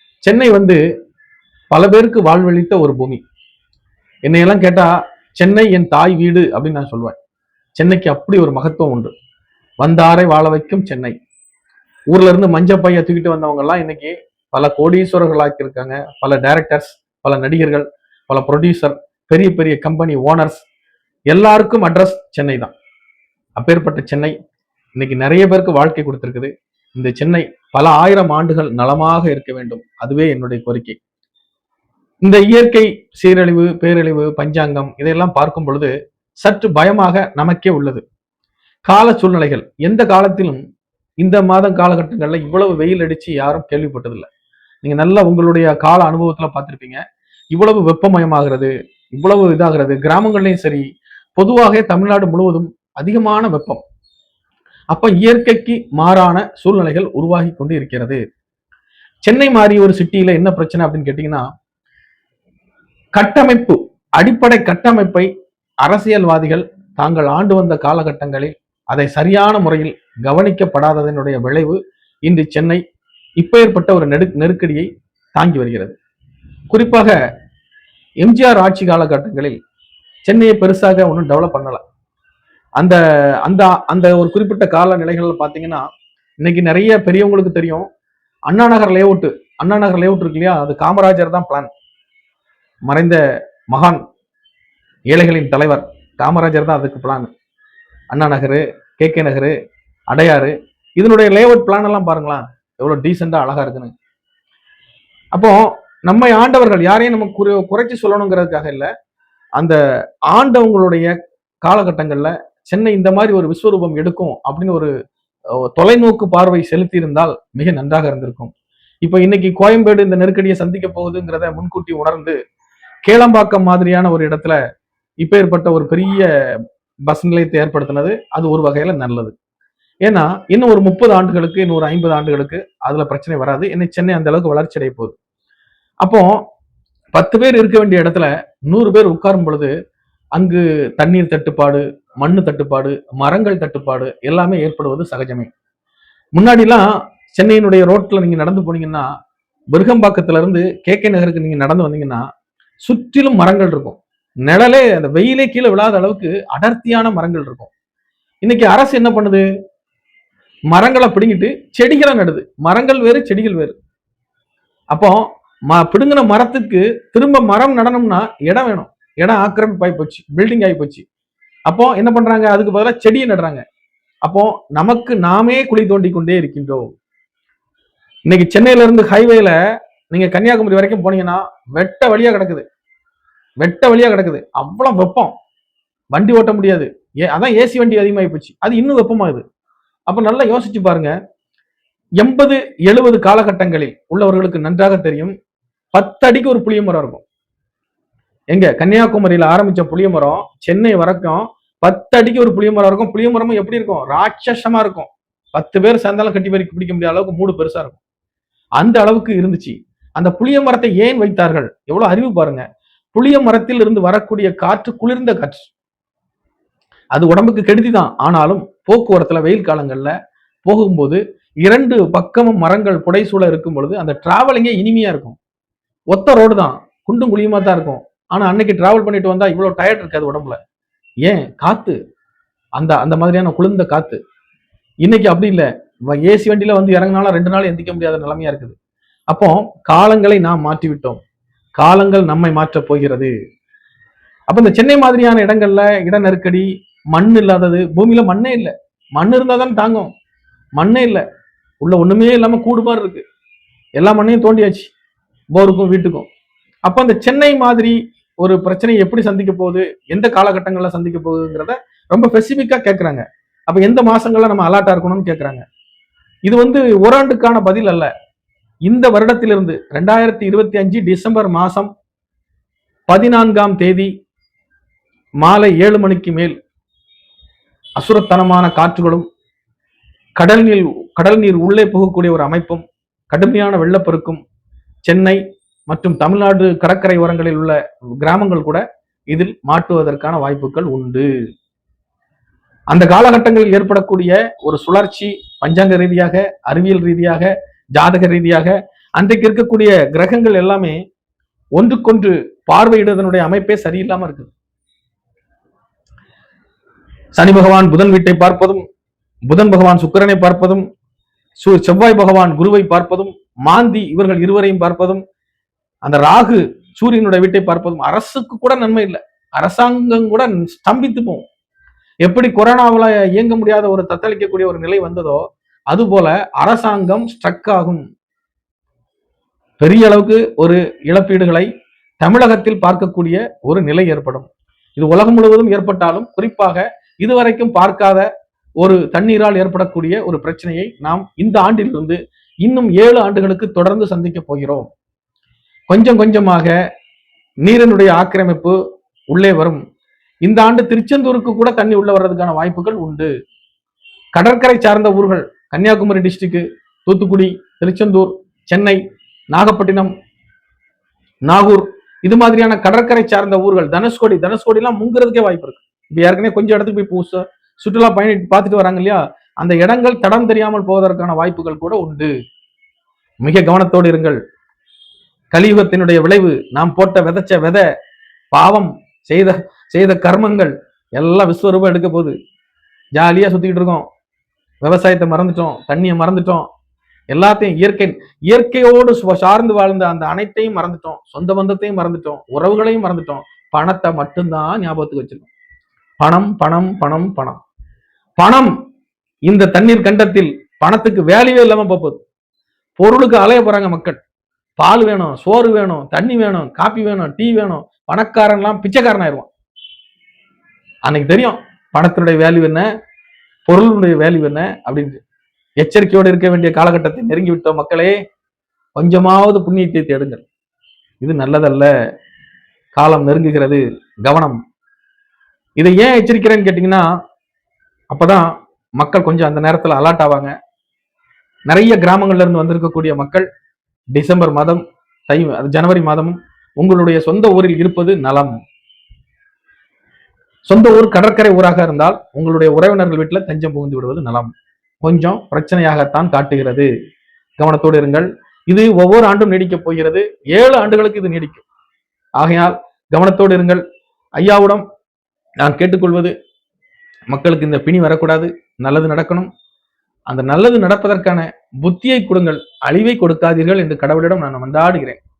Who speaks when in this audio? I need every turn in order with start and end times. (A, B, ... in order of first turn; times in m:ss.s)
0:00.2-0:00.8 A
0:01.7-0:03.2 A
0:04.2-0:07.2 A
0:07.8-0:09.1 A
0:09.8-0:11.1 A
0:12.1-0:20.6 A
0:21.3-0:22.7 A
0:23.6-0:24.3 A
0:25.0-0:31.0 A
0:32.2-0:38.0 A
0:38.8-0:40.6 A
0:41.2-0:44.3 A
0:44.8-0:50.8 A
0:51.4-0:53.8 A
0:54.9-0:58.2 A
0:59.2-1:01.4 A
1:03.1-1:05.3 A
1:05.8-1:12.8 A
1:13.4-1:16.0 A
1:16.7-1:17.1 A
1:18.2-1:19.6 A
1:20.2-1:21.8 A
1:22.8-1:25.8 A
1:26.4-1:27.9 A
1:28.5-1:31.7 A
1:32.9-1:33.2 A
1:33.7-1:34.0 A
1:35.1-1:37.3 A
1:38.1-1:39.5 A
1:40.1-1:43.9 A
1:45.3-1:48.9 A
1:50.3-1:51.1 A
1:51.6-1:54.9 A
1:55.7-1:58.5 A
1:59.0-2:02.4 A
2:03.0-2:04.6 A
2:05.2-2:06.3 A
2:07.1-2:09.3 A
2:10.0-2:15.1 A
2:16.0-2:16.4 A
2:17.1-2:19.7 A
2:20.3-2:25.5 A
2:26.3-2:29.1 A
2:29.7-2:32.2 A
2:32.8-2:37.7 A
2:38.4-2:39.4 A
2:40.7-2:43.8 A
2:44.9-2:51.0 A
2:51.7-2:53.6 A
2:54.2-2:56.9 A
2:58.3-2:59.6 A
3:00.1-3:02.6 A
3:03.6-3:05.3 A
3:06.1-3:09.4 A
3:10.1-3:11.1 A
3:12.2-3:15.3 A
3:15.9-3:17.2 A
3:18.5-3:28.0 A
3:28.8-3:35.7 A
3:37.1-3:40.1 A
3:40.6-3:45.4 A
3:46.1-3:50.6 A
3:51.2-3:52.0 A
3:52.8-3:54.2 A
3:55.0-3:58.7 A
3:59.3-4:01.2 A
4:01.8-4:03.3 A
4:04.5-4:10.1 A
4:10.8-4:11.2 A
4:11.8-4:13.2 A
4:14.0-4:14.9 A
4:15.5-4:16.3 A
4:16.8-4:25.6 A
4:26.4-4:28.1 A
4:28.8-4:31.9 A
4:33.1-4:34.1 A
4:35.4-4:36.5 A
4:38.0-4:39.2 A
4:40.4-4:44.4 A
4:45.0-4:51.3 A
4:52.9-5:01.0 A
5:01.8-5:04.5 A
5:07.3-5:08.8 A
5:09.5-5:10.8 A
5:11.6-5:15.2 A
5:16.0-5:21.4 A
5:22.2-5:28.0 A
5:29.8-5:31.7 A
5:32.2-5:38.3 A
5:38.8-5:44.9 A
5:45.9-5:46.7 A
5:47.6-5:48.8 A
5:49.3-5:49.8 A
5:50.4-5:53.3 A
5:54.3-5:59.0 A
5:59.5-6:00.1 A
6:01.4-6:12.3 A
6:13.4-6:14.4 A
6:15.5-6:17.9 A
6:18.5-6:22.3 A
6:23.1-6:24.0 A
6:24.8-6:26.6 A
6:27.3-6:35.5 A
6:36.2-6:37.6 A
6:38.4-6:38.7 A
6:39.4-6:42.2 A
6:43.0-6:44.2 A
6:44.8-6:49.5 A
6:51.0-6:52.8 A
6:53.6-6:55.2 A
6:55.8-6:58.2 A
6:58.9-7:00.4 A
7:01.2-7:01.9 A
7:02.9-7:04.6 A
7:05.8-7:07.0 A
7:08.1-7:10.5 A
7:11.7-7:13.5 A
7:14.1-7:18.6 A
7:20.7-7:24.5 A
7:25.0-7:26.9 A
7:27.6-7:31.6 A
7:32.4-7:33.8 A
7:34.4-7:34.8 A
7:35.6-7:36.3 A
7:37.3-7:39.5 A
7:40.3-7:45.2 A